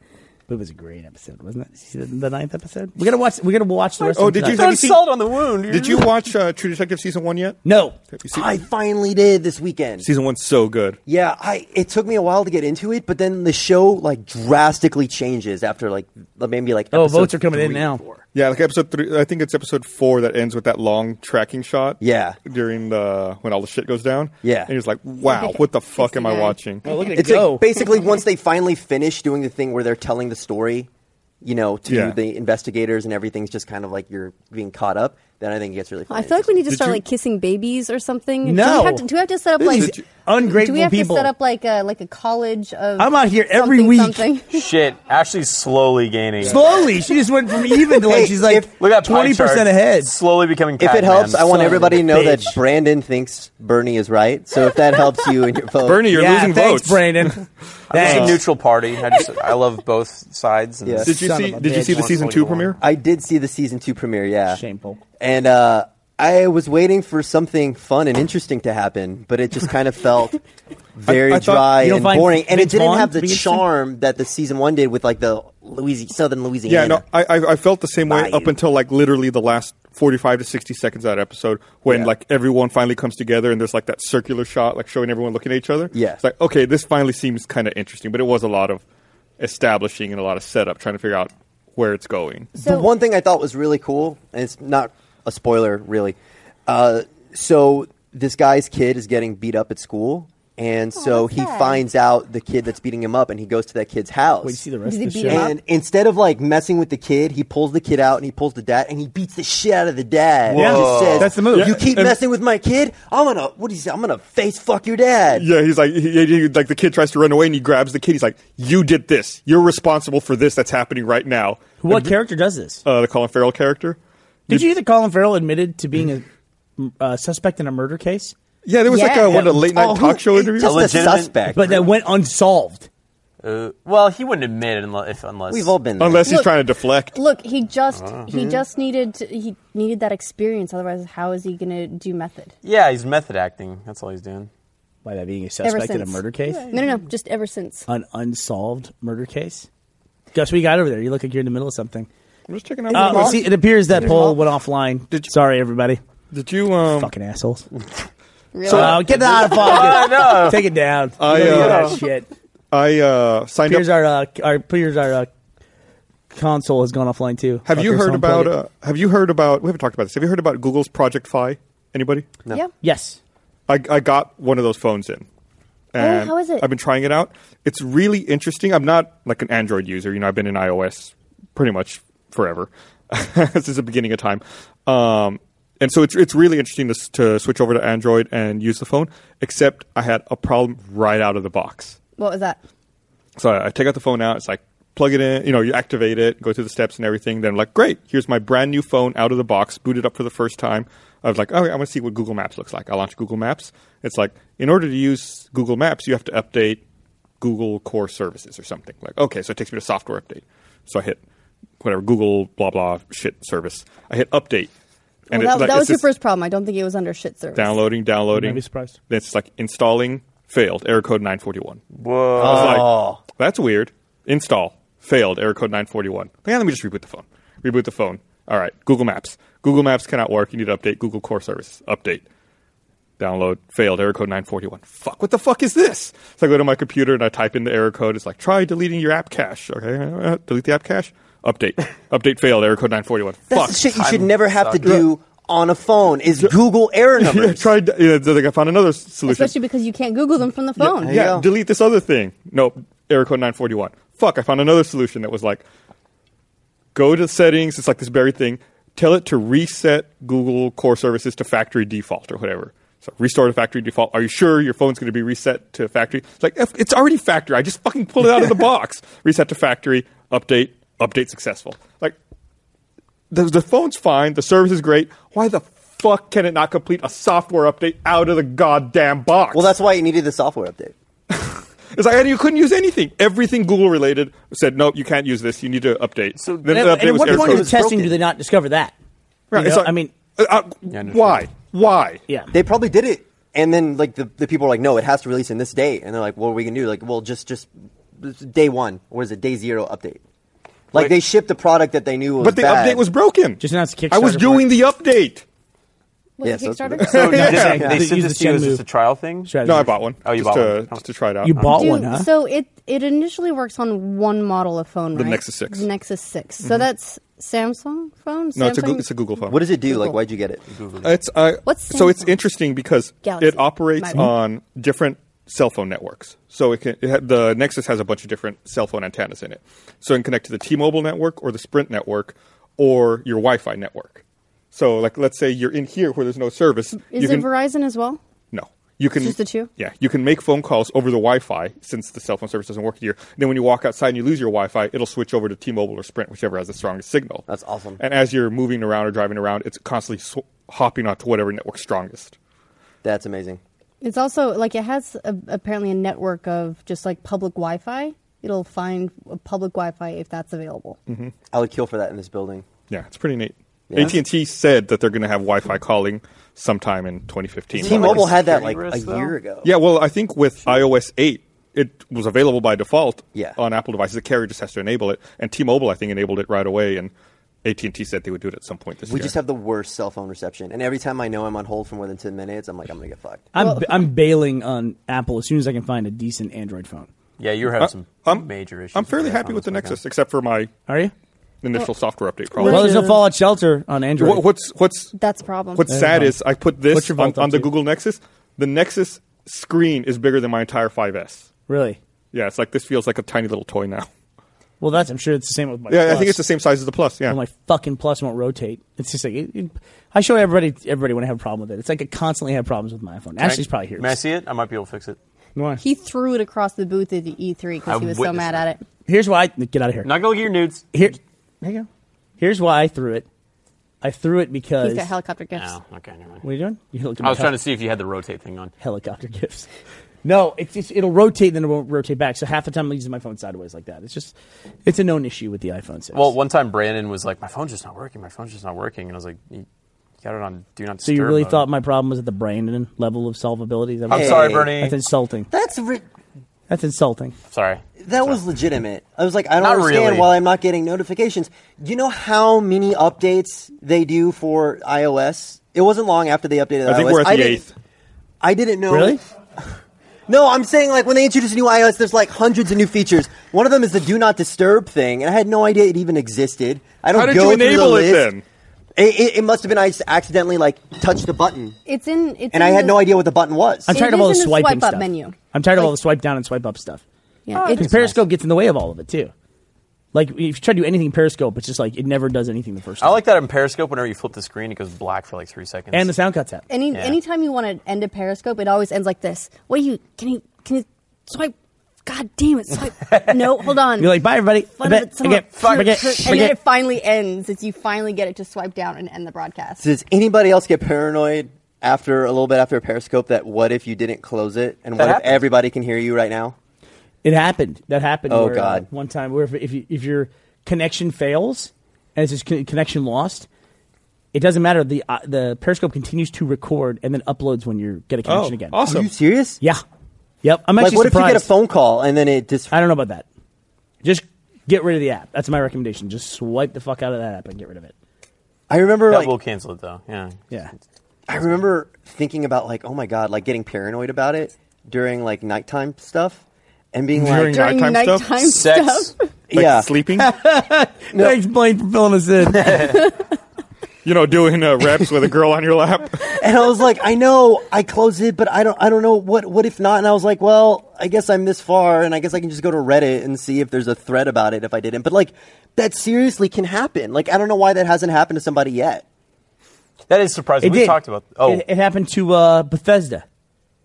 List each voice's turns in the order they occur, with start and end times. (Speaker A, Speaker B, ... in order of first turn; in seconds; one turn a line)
Speaker A: 0.5-4.7
Speaker B: 4.1-6.1
Speaker C: 4.2-5.1
Speaker C: 5.7-7.6
Speaker A: 7.6-8.0
Speaker C: 8.1-8.6
Speaker D: 8.3-10.1
Speaker C: 10.0-11.0
Speaker D: 11.1-18.2
Speaker A: 16.9-18.0
Speaker C: 18.3-26.8
Speaker D: 22.0-22.4
Speaker D: 24.4-24.7
Speaker E: 25.2-26.6
Speaker A: 26.8-27.6
Speaker D: 27.1-30.9
Speaker D: 31.4-36.6
Speaker C: 31.9-32.2
Speaker E: 36.1-44.6
Speaker C: 36.7-37.0
Speaker A: 38.4-39.1
Speaker A: 39.6-41.3
Speaker C: 39.7-40.0
Speaker A: 43.0-44.3
Speaker B: 44.5-46.6
Speaker A: 46.4-50.1
Speaker D: 47.9-48.7
Speaker B: 48.8-52.0
Speaker D: 50.8-56.1
Speaker A: 51.5-52.6
Speaker C: 55.8-58.4
Speaker A: 56.1-58.4
Speaker B: 57.9-61.1
Speaker D: 60.8-61.1
Speaker A: 61.0-62.3
Speaker C: 61.0-62.8
Speaker B: 61.7-62.8
Speaker D: 62.8-64.6
Speaker A: 64.5-65.0
Speaker D: 65.2-70.4
Speaker D: 71.0-77.0
Speaker C: 71.1-71.8
Speaker A: 71.7-73.6
Speaker C: 76.7-88.8
Speaker D: 78.1-78.5
Speaker D: 85.9-86.2
Speaker C: 89.4-92.5
Speaker E: 92.5-92.9
Speaker D: 92.6-96.2
Speaker D: 96.7-104.6
Speaker E: 101.0-101.8
Speaker A: 104.4-105.5
Speaker E: 104.8-105.5
Speaker D: 105.2-115.5
Speaker A: 110.5-111.8
Speaker B: 110.5-111.3
Speaker C: 111.5-112.2
Speaker C: 115.3-122.2
Speaker A: 121.8-122.8
Speaker C: 122.8-124.7
Speaker A: 124.5-126.2
Speaker A: 126.8-128.3
Speaker C: 128.6-131.2
Speaker E: 128.9-129.4
Speaker D: 129.3-131.9
Speaker B: 130.6-131.3
Speaker A: 131.5-132.9
Speaker B: 133.4-135.7
Speaker D: 135.5-136.3
Speaker C: 136.0-137.2
Speaker E: 136.2-136.6
Speaker E: 137.1-142.5
Speaker B: 137.9-138.3
Speaker B: 142.6-144.5
Speaker A: 145.0-146.7
Speaker E: 145.6-147.9
Speaker A: 147.9-149.7
Speaker A: 150.3-152.1
Speaker C: 152.5-153.5
Speaker E: 152.9-153.4
Speaker A: 152.9-156.0
Speaker E: 154.0-154.4
Speaker C: 156.3-157.1
Speaker A: 156.9-157.7
Speaker E: 158.5-159.2
Speaker C: 158.7-159.2
Speaker A: 158.7-162.3
Speaker B: 159.3-160.6
Speaker E: 159.8-160.2
Speaker C: 161.2-162.0
Speaker B: 161.4-162.0
Speaker C: 162.7-163.9
Speaker A: 163.7-165.3
Speaker A: 166.3-168.6
Speaker C: 167.7-172.3
Speaker A: 172.8-173.2
Speaker C: 173.7-175.3
Speaker C: 175.9-192.0
Speaker E: 176.0-176.6
Speaker E: 192.2-192.6
Speaker C: 193.4-206.8
Speaker C: 207.4-211.2
Speaker C: 211.8-214.7
Speaker E: 215.3-217.8
Speaker C: 215.3-216.1
Speaker C: 217.5-221.8
Speaker A: 218.3-218.9
Speaker B: 221.9-222.9
Speaker D: 222.3-223.2
Speaker C: 222.4-232.2
Speaker C: 233.2-244.0
Speaker D: 243.5-247.7
Speaker B: 243.9-245.0
Speaker C: 247.2-249.5
Speaker E: 249.2-251.2
Speaker C: 250.8-255.6
Speaker D: 251.0-251.5
Speaker C: 256.9-272.1
Speaker C: 273.3-279.8
Speaker D: 279.5-280.9
Speaker C: 281.3-287.7
Speaker B: 286.4-286.9
Speaker A: 286.7-288.9
Speaker D: 287.2-288.2
Speaker C: 289.5-292.2
Speaker A: 289.5-290.1
Speaker B: 290.9-291.5
Speaker D: 292.5-300.2
Speaker D: 300.9-303.0
Speaker C: 302.4-305.4
Speaker A: 303.6-304.7
Speaker E: 306.4-307.5
Speaker D: 306.4-308.0
Speaker C: 307.0-307.8
Speaker B: 307.1-309.5
Speaker A: 307.3-308.8
Speaker A: 309.4-309.9
Speaker C: 309.6-311.6
Speaker B: 310.2-311.0
Speaker A: 311.4-312.3
Speaker E: 311.6-319.1
Speaker C: 315.1-315.9
Speaker C: 318.6-319.6
Speaker D: 319.5-320.6
Speaker E: 319.8-320.2
Speaker B: 320.7-321.2
Speaker C: 321.0-337.5
Speaker E: 321.6-322.4
Speaker E: 323.2-324.3
Speaker E: 336.9-338.2
Speaker C: 338.5-347.4
Speaker E: 339.2-339.7
Speaker D: 347.5-348.0
Speaker C: 348.0-352.3
Speaker D: 353.0-353.6
Speaker E: 354.0-361.0
Speaker D: 361.5-362.6
Speaker C: 362.9-368.3
Speaker D: 363.9-364.2
Speaker B: 367.7-369.3
Speaker D: 367.8-369.7
Speaker C: 369.6-377.1
Speaker C: 377.6-379.3
Speaker D: 379.0-383.5
Speaker A: 383.5-387.1
Speaker E: 383.6-384.0
Speaker B: 387.4-390.0
Speaker C: 387.8-390.7
Speaker A: 390.9-391.1
Speaker C: 391.6-392.9
Speaker E: 392.6-393.2
Speaker A: 392.6-394.4
Speaker C: 394.2-395.1
Speaker E: 395.1-395.8
Speaker C: 395.7-401.5
Speaker A: 395.9-396.4
Speaker A: 396.9-397.7
Speaker A: 401.7-402.0
Speaker C: 402.3-404.1
Speaker A: 404.8-406.4
Speaker C: 405.9-407.4
Speaker A: 407.3-414.2
Speaker B: 413.4-415.2
Speaker A: 415.6-415.8
Speaker E: 415.8-418.8
Speaker B: 417.9-418.6
Speaker A: 419.1-420.2
Speaker B: 420.0-420.8
Speaker A: 420.9-421.9
Speaker A: 422.4-423.2
Speaker A: 424.0-425.1
Speaker E: 424.8-425.8
Speaker B: 425.5-426.4
Speaker A: 426.4-427.6
Speaker B: 427.2-428.7
Speaker A: 428.8-429.7
Speaker A: 430.2-434.3
Speaker A: 434.9-436.3
Speaker B: 436.1-439.6
Speaker B: 440.2-441.6
Speaker A: 441.0-445.5
Speaker B: 444.1-444.9
Speaker D: 444.1-444.8
Speaker D: 445.5-446.0
Speaker A: 446.7-447.3
Speaker B: 447.5-448.4
Speaker D: 448.0-457.6
Speaker B: 449.6-450.4
Speaker C: 456.8-457.7
Speaker D: 458.4-459.2
Speaker A: 458.9-459.2
Speaker D: 460.3-468.3
Speaker C: 467.1-468.4
Speaker D: 468.9-471.8
Speaker E: 471.9-473.1
Speaker D: 472.5-473.9
Speaker A: 473.9-477.0
Speaker E: 473.9-475.9
Speaker E: 477.5-477.9
Speaker B: 477.5-478.2
Speaker A: 477.7-479.3
Speaker A: 480.1-483.2
Speaker B: 483.0-486.1
Speaker A: 485.9-486.6
Speaker E: 486.7-491.5
Speaker B: 486.9-487.2
Speaker E: 492.0-494.2
Speaker B: 493.1-493.4
Speaker A: 494.0-496.6
Speaker E: 494.8-499.8
Speaker B: 495.5-496.5
Speaker D: 499.8-506.6
Speaker B: 505.0-505.5
Speaker A: 507.2-513.5
Speaker D: 508.3-508.9
Speaker A: 514.3-518.8
Speaker C: 518.2-519.1
Speaker D: 518.8-519.6
Speaker A: 520.4-521.5
Speaker D: 520.8-522.7
Speaker A: 522.7-523.2
Speaker A: 524.0-527.9
Speaker D: 528.7-529.3
Speaker B: 529.1-530.4
Speaker D: 531.3-537.6
Speaker C: 537.1-538.3
Speaker E: 537.3-539.3
Speaker B: 538.4-539.1
Speaker D: 539.5-539.9
Speaker C: 539.5-540.3
Speaker A: 540.2-543.0
Speaker E: 542.8-543.1
Speaker C: 544.0-546.4
Speaker D: 546.4-559.0
Speaker B: 560.1-561.6
Speaker A: 560.6-563.2